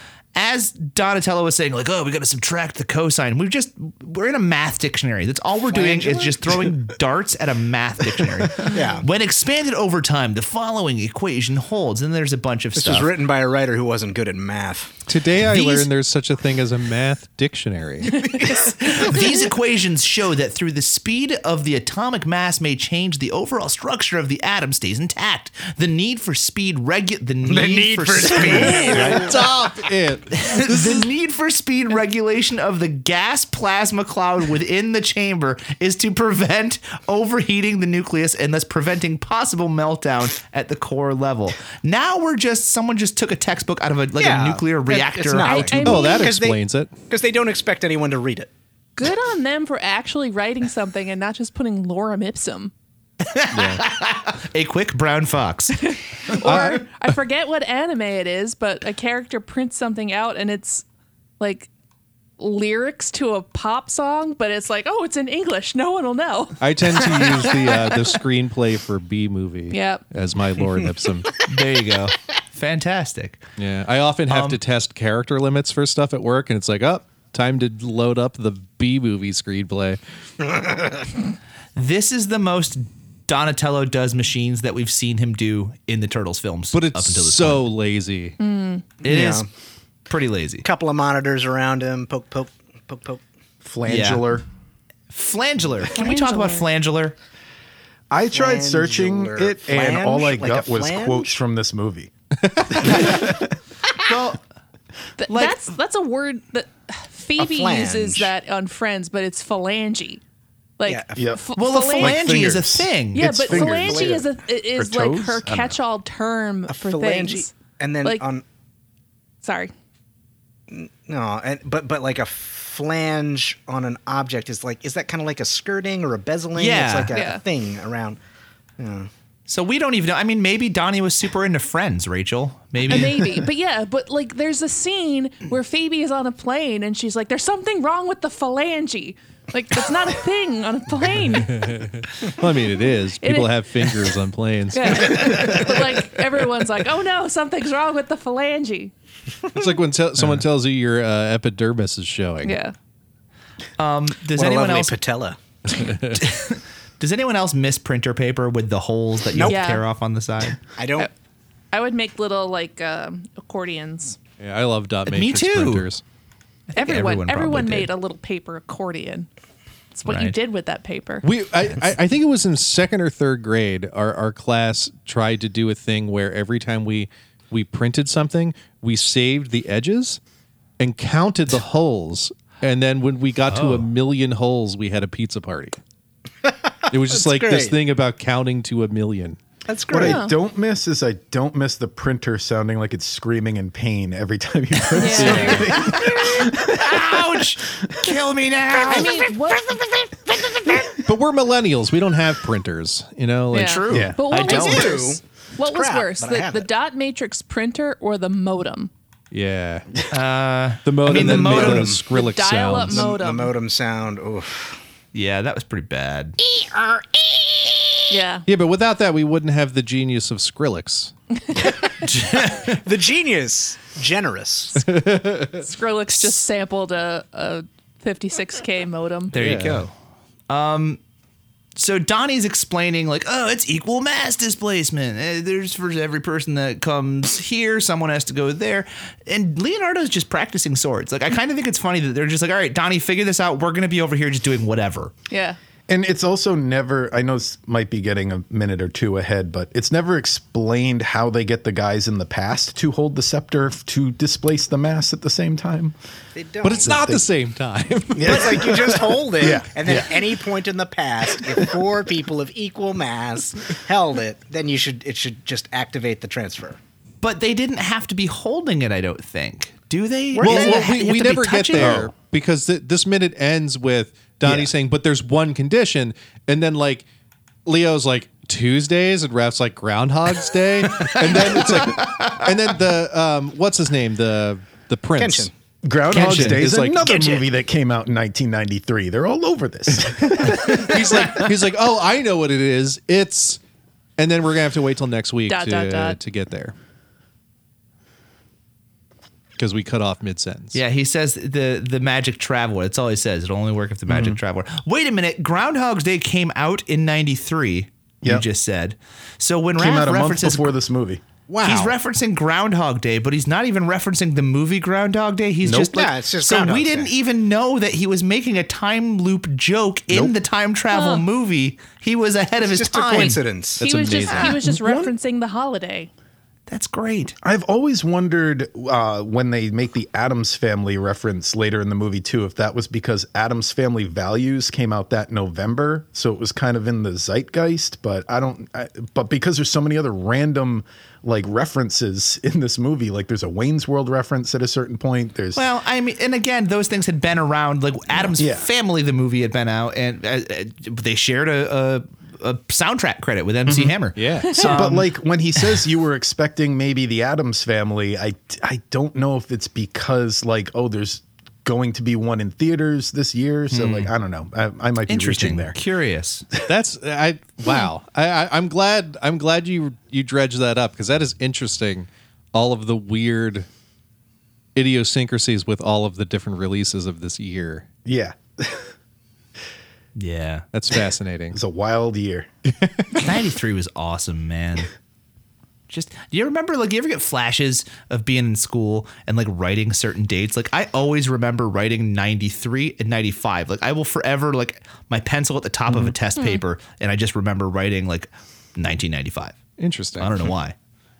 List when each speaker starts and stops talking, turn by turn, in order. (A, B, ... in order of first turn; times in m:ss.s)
0:00.3-0:13.1 A
0:05.7-0:06.7 B
0:08.6-0:09.0 B
0:12.8-0:15.8 B
0:15.1-0:18.4 C
0:18.6-0:29.3 A
0:27.4-0:29.4 B
0:28.4-0:31.1 C
0:30.3-0:45.7 A
0:44.2-0:48.5 B
0:45.4-0:46.3 D
0:45.7-0:46.9 C
0:49.0-0:52.7 D
0:53.2-0:56.4 A
0:53.5-0:53.8 C
0:55.8-1:00.8 D
0:56.4-0:56.9 C
1:01.4-1:01.7 D
1:02.4-1:08.0 D
1:06.6-1:11.3 C
1:09.7-1:10.0 D
1:11.4-1:13.4 A
1:13.6-1:20.0 C
1:14.3-1:14.6 A
1:20.4-1:21.1 B
1:21.8-1:27.6 A
1:26.7-1:28.4 C
1:28.4-1:28.8 D
1:29.0-1:29.5 B
1:29.0-1:29.4 A
1:30.1-1:30.6 A
1:30.6-1:33.2 B
1:33.6-1:34.4 E
1:33.9-1:34.2 A
1:35.1-1:37.2 A
1:35.9-1:36.6 D
1:38.1-1:42.1 E
1:38.3-1:41.3 B
1:42.5-1:42.8 C
1:42.7-1:43.5 E
1:42.9-1:43.2 A
1:44.0-1:44.4 A
1:45.2-1:50.2 D
1:45.3-1:45.6 A
1:47.4-1:48.3 B
1:50.8-1:52.5 D
1:50.8-1:51.3 B
1:51.2-1:51.4 E
1:51.6-1:53.4 A
1:51.9-1:55.8 E
1:53.1-1:58.2 D
1:53.5-1:54.2 B
1:56.7-1:58.4 B
1:59.4-1:59.7 D
2:00.7-2:08.2 B
2:06.5-2:07.1 A
2:07.1-2:07.4 D
2:08.8-2:09.1 B
2:09.5-2:13.3 A
2:12.9-2:21.7 D
2:21.5-2:26.0 C
2:23.2-2:23.9 D
2:24.7-2:28.9 D
2:29.5-2:32.6 C
2:32.4-2:32.7 D
2:33.8-2:35.0 A
2:34.4-2:35.4 B
2:35.7-2:36.2 C
2:36.1-2:40.6 A
2:39.3-2:39.6 B
2:39.4-2:39.8 D
2:40.8-2:41.1 B
2:41.7-2:44.2 D
2:44.4-2:46.0 C
2:45.0-2:45.9 A
2:46.7-2:47.9 A
2:46.7-2:49.3 D
2:49.9-2:51.3 D
2:50.0-2:50.4 A
2:51.2-3:00.2 C
3:00.8-3:05.8 C
3:03.5-3:03.8 A
3:06.4-3:07.8 B
3:06.9-3:09.4 C
3:09.7-3:10.2 B
3:09.9-3:18.1 E
3:10.0-3:10.3 D
3:14.9-3:15.7 D
3:15.2-3:15.8 C
3:15.2-3:19.3 A
3:18.9-3:19.7 D
3:21.0-3:24.1 C
3:23.5-3:28.9 D
3:23.6-3:25.1 A
3:23.9-3:24.2 E
3:24.3-3:26.7 B
3:29.3-3:30.0 C
3:30.1-3:32.0 A
3:30.8-3:33.1 C
3:31.0-3:32.0 B
3:32.1-3:33.5 D
3:32.9-3:34.8 B
3:35.1-3:36.4 A
3:36.7-3:37.0 B
3:38.1-3:38.4 D
3:38.5-3:41.1 C
3:42.0-3:42.8 A
3:42.8-3:44.9 B
3:44.8-3:45.6 C
3:45.6-3:49.3 D
3:49.3-3:49.9 A
3:49.3-3:49.8 C
3:50.5-3:51.0 A
3:51.8-4:05.1 A
4:05.3-4:05.6 D
4:05.9-4:15.9 E
4:16.3-4:17.1 B
4:16.6-4:18.7 C
4:16.8-4:17.2 E
4:18.1-4:20.3 E
4:18.2-4:26.8 B
4:27.2-4:32.1 A
4:30.3-4:31.9 B
4:30.4-4:37.0 C
4:37.6-4:45.5 C
4:40.9-4:42.5 A
4:45.2-4:45.5 B
4:45.8-4:51.4 E
4:46.1-4:47.1 C
4:47.1-4:47.4 B
4:50.7-4:53.6 C
4:54.2-4:56.7 C
4:55.5-4:56.2 D
4:59.6-5:00.8 C
5:00.7-5:10.7 A
5:04.1-5:04.4 E
5:09.8-5:11.2 E
5:11.5-5:11.9 B
5:11.6-5:23.4 A
5:15.6-5:16.0 E
5:15.9-5:17.1 B
5:20.9-5:21.2 D
5:22.6-5:23.8 B
5:23.8-5:24.6 C
5:23.8-5:26.1 D
5:24.7-5:25.1 E
5:26.7-5:27.4 A
5:27.4-5:45.6 E
5:45.5-5:55.1 A
5:48.3-5:48.6 E
5:53.6-5:53.9 E
5:54.2-5:54.6 C
5:54.4-5:54.8 D
5:54.6-6:05.8 E
6:03.7-6:04.1 A
6:05.1-6:06.5 A
6:06.6-6:13.7 C
6:14.7-6:17.9 C
6:18.0-6:18.9 E
6:20.2-6:20.6 A
6:20.7-6:21.6 C
6:21.5-6:22.5 E
6:22.8-6:23.2 C
6:23.2-6:24.9 A
6:25.9-6:39.6 A
6:39.8-6:40.4 C
6:40.2-6:40.7 A